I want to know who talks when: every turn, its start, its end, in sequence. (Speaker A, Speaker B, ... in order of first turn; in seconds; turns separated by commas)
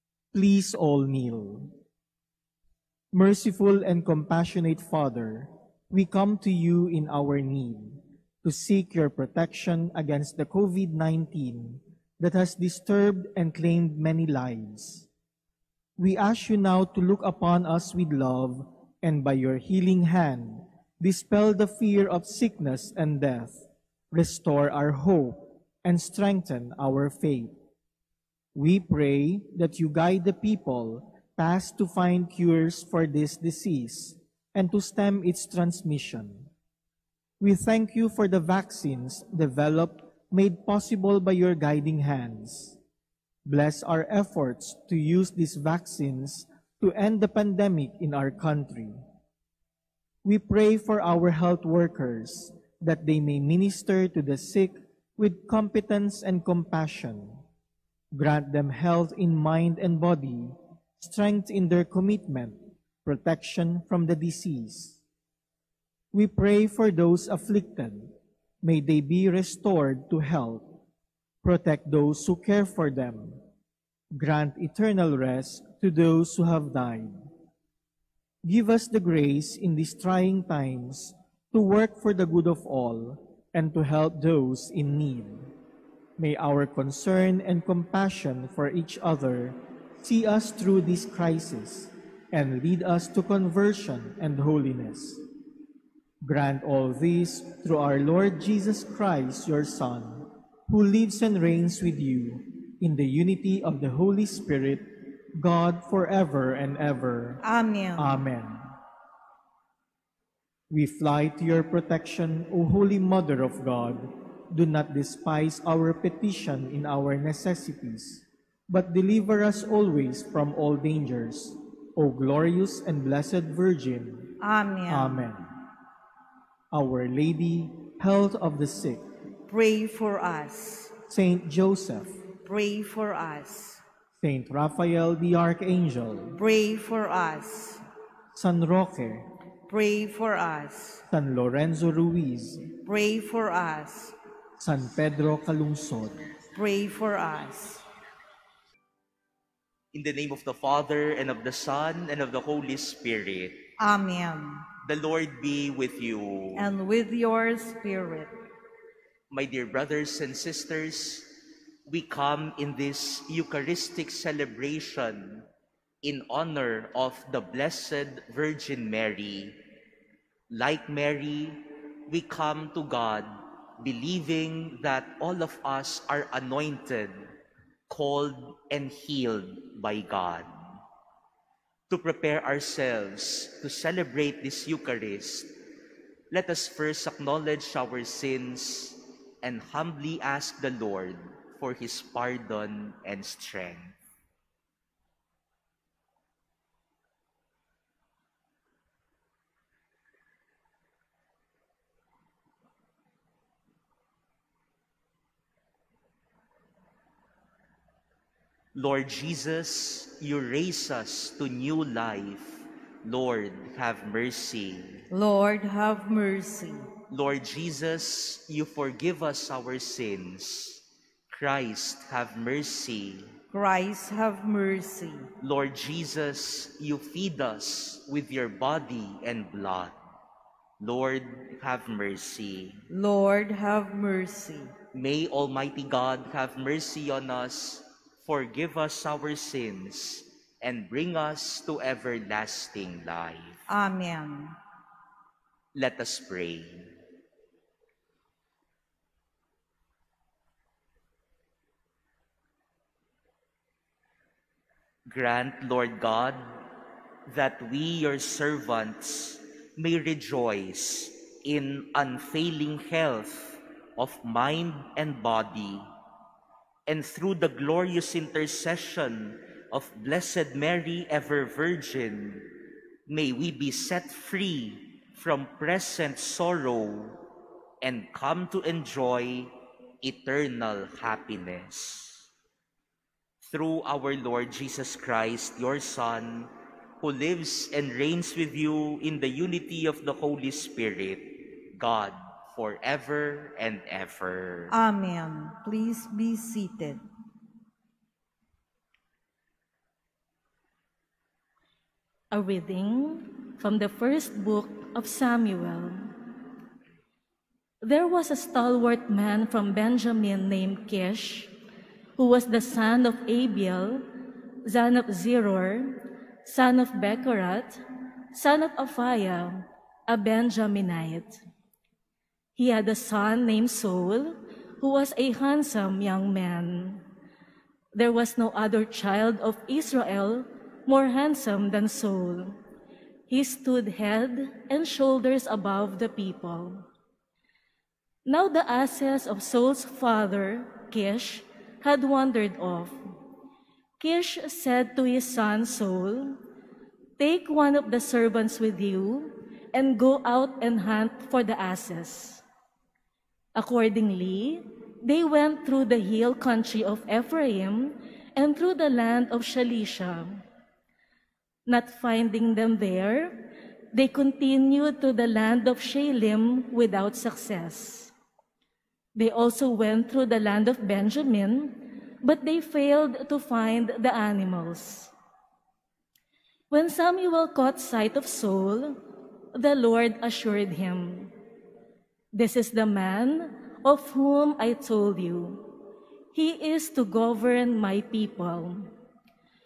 Speaker A: 0.3-1.8, Speaker A: 3.1-15.1, Speaker A: 16.0-27.6, Speaker A: 28.5-36.5, Speaker A: 37.4-42.8, Speaker A: 43.5-49.0, Speaker A: 50.2-57.4, Speaker A: 58.1-65.0, Speaker A: 66.1-70.8, Speaker A: 71.4-73.4, Speaker A: 74.2-77.3, Speaker A: 78.4-85.5, Speaker A: 86.2-95.2, Speaker A: 96.2-107.4, Speaker B: 107.4-108.2, Speaker A: 108.0-108.7, Speaker A: 110.7-124.3, Speaker B: 124.4-125.3, Speaker A: 124.9-125.5, Speaker A: 126.7-129.0, Speaker B: 129.5-130.9, Speaker A: 131.1-132.2, Speaker B: 132.4-133.8, Speaker A: 134.2-136.4, Speaker B: 136.4-137.8, Speaker A: 138.3-139.2, Speaker B: 139.7-141.0, Speaker A: 141.1-142.7, Speaker B: 142.8-144.2, Speaker A: 144.6-146.2, Speaker B: 146.6-147.8, Speaker C: 149.9-153.6, Speaker B: 153.8-154.7, Speaker C: 154.8-156.7, Speaker B: 156.6-158.3, Speaker C: 159.3-161.3, Speaker C: 161.9-165.5, Speaker C: 166.0-169.6, Speaker C: 170.5-173.3, Speaker C: 173.8-177.2, Speaker C: 177.9-180.5, Speaker C: 181.9-185.5, Speaker C: 186.3-194.0, Speaker C: 208.8-215.0, Speaker B: 215.1-216.8, Speaker C: 217.1-223.3, Speaker B: 223.5-225.3, Speaker C: 225.4-229.9, Speaker C: 230.8-232.8, Speaker B: 232.9-234.7, Speaker C: 234.9-243.6, Speaker B: 243.7-244.6, Speaker C: 245.8-246.9, Speaker C: 255.1-256.4, Speaker C: 257.3-265.8, Speaker C: 266.9-272.4, Speaker C: 273.1-277.2, Speaker C: 277.8-279.5, Speaker C: 280.0-282.2, Speaker C: 283.4-286.5, Speaker C: 287.0-294.7, Speaker B: 294.7-297.0, Speaker D: 302.3-306.1, Speaker D: 307.8-311.5, Speaker D: 312.2-314.1, Speaker D: 314.6-317.8, Speaker D: 318.3-321.4, Speaker D: 322.6-327.0, Speaker D: 327.9-332.6, Speaker D: 333.3-336.9, Speaker D: 338.2-343.0, Speaker D: 344.0-346.4, Speaker D: 347.2-352.4, Speaker D: 353.5-360.4, Speaker D: 361.7-368.1, Speaker D: 369.1-375.1, Speaker D: 376.7-379.0, Speaker D: 379.5-381.3, Speaker D: 382.3-385.7, Speaker D: 386.3-388.9